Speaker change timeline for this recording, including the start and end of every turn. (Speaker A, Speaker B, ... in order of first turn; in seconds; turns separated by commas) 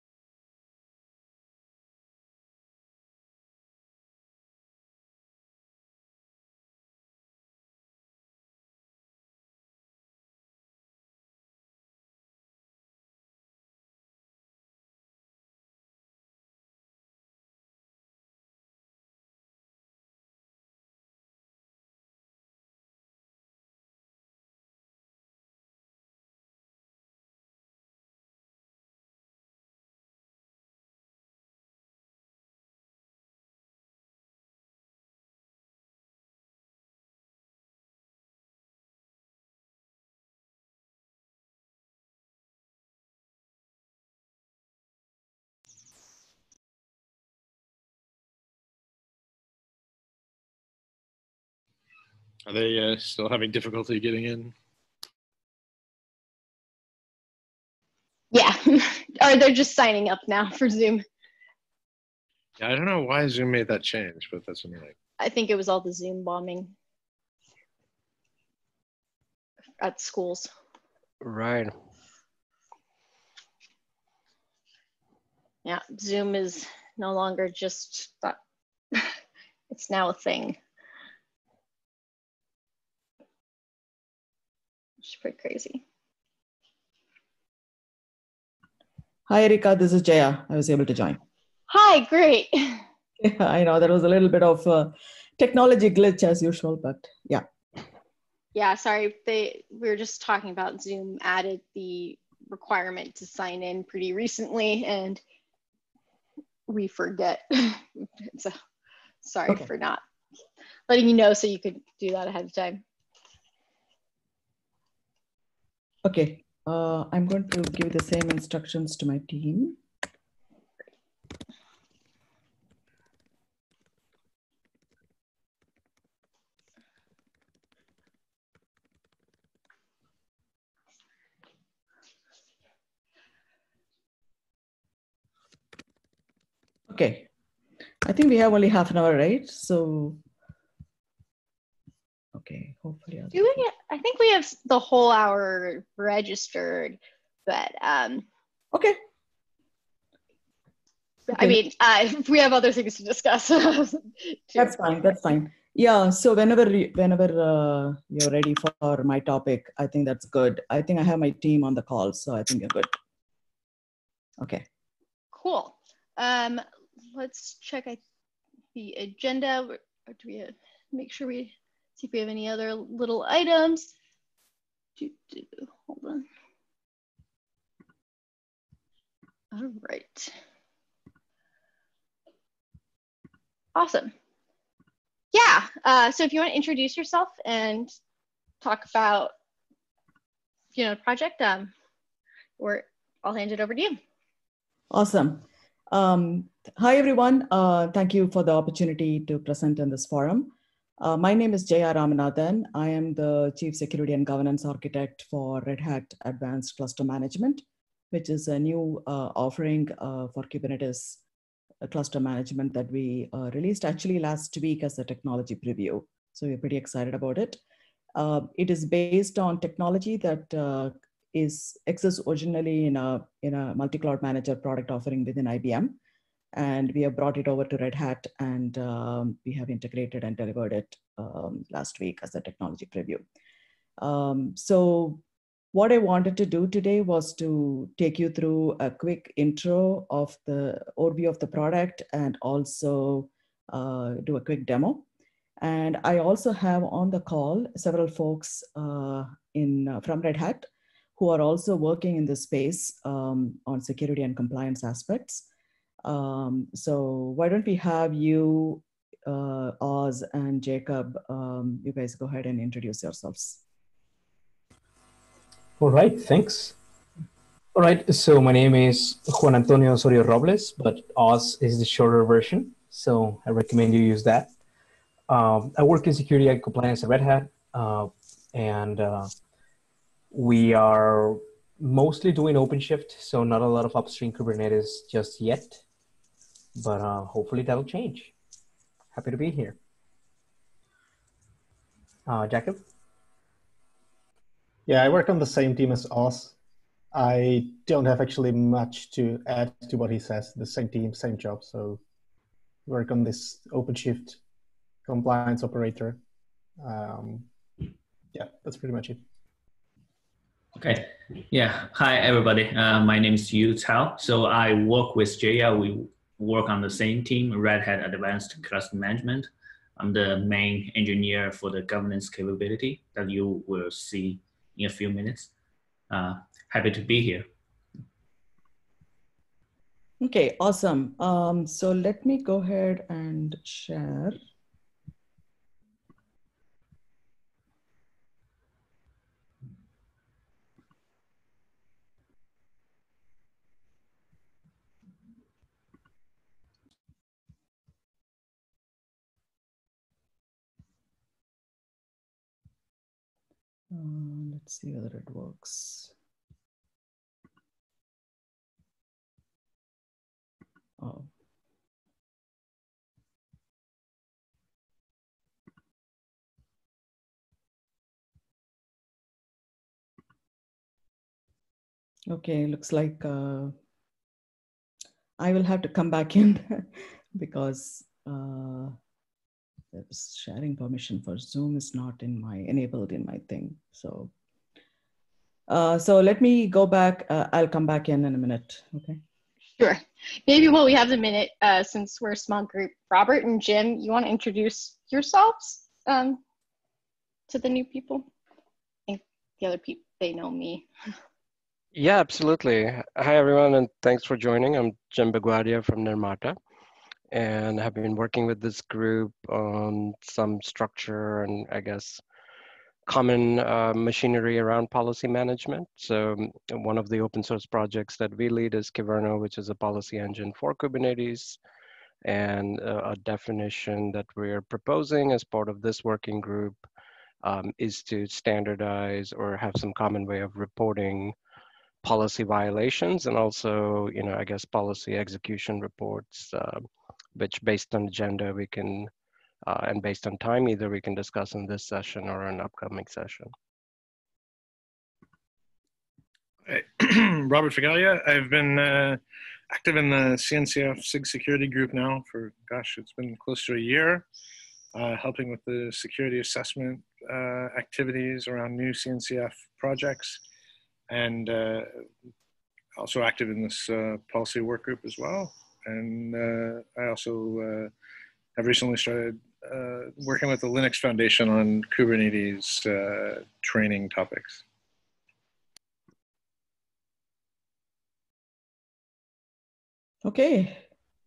Speaker A: 52.5-54.5, Speaker B: 58.3-61.0, Speaker A: 62.6-64.9, Speaker B: 65.2-66.7, Speaker B: 69.8-70.5, Speaker C: 71.2-71.7, Speaker B: 75.7-78.4, Speaker B: 79.7-80.6, Speaker B: 85.0-85.8, Speaker D: 89.3-91.2, Speaker B: 91.7-92.8, Speaker D: 93.2-97.4, Speaker B: 98.5-105.2, Speaker B: 106.7-108.5, Speaker B: 109.2-110.0, Speaker B: 110.9-112.8, Speaker D: 116.0-119.8, Speaker D: 136.9-137.3, Speaker D: 138.0-140.2, Speaker D: 142.3-143.7, Speaker B: 143.3-148.2, Speaker D: 148.7-149.0, Speaker B: 151.3-154.7, Speaker D: 154.5-162.9, Speaker D: 164.4-164.7, Speaker B: 165.3-168.0, Speaker B: 168.7-173.9, Speaker B: 175.0-176.2, Speaker B: 179.5-180.3, Speaker B: 183.7-184.1, Speaker B: 185.3-188.0, Speaker B: 188.6-189.3, Speaker B: 190.7-191.7, Speaker B: 192.6-194.0, Speaker D: 194.9-211.2, Speaker D: 211.8-217.6, Speaker D: 218.2-226.0, Speaker D: 226.5-233.2, Speaker D: 234.0-235.2, Speaker D: 235.7-245.0, Speaker D: 245.6-255.5, Speaker D: 256.0-263.6, Speaker E: 265.8-266.8, Speaker E: 267.7-274.5, Speaker E: 275.3-279.3, Speaker E: 280.3-285.8, Speaker E: 286.8-288.3, Speaker E: 289.1-289.8, Speaker E: 292.2-292.9, Speaker F: 294.9-296.6, Speaker F: 297.1-302.0, Speaker F: 302.9-304.4, Speaker F: 305.1-306.2, Speaker F: 306.8-307.5, Speaker F: 308.3-309.2, Speaker G: 310.8-325.5, Speaker G: 326.1-327.5, Speaker D: 330.2-334.4, Speaker D: 353.9-356.1, Speaker D: 361.0-361.3, Speaker D: 372.3-373.8, Speaker D: 375.4-378.9, Speaker D: 379.9-384.3, Speaker D: 385.7-389.2, Speaker B: 389.8-396.4, Speaker B: 397.5-398.3, Speaker B: 399.1-400.9, Speaker C: 401.9-406.6, Speaker C: 407.3-412.2, Speaker C: 413.1-421.6, Speaker C: 422.2-426.9, Speaker C: 427.4-431.3, Speaker C: 432.0-439.1, Speaker C: 439.6-443.5, Speaker A: 446.6-454.3, Speaker A: 454.9-460.4, Speaker A: 461.1-462.1, Speaker A: 462.9-467.9, Speaker A: 468.6-474.6, Speaker D: 480.2-480.8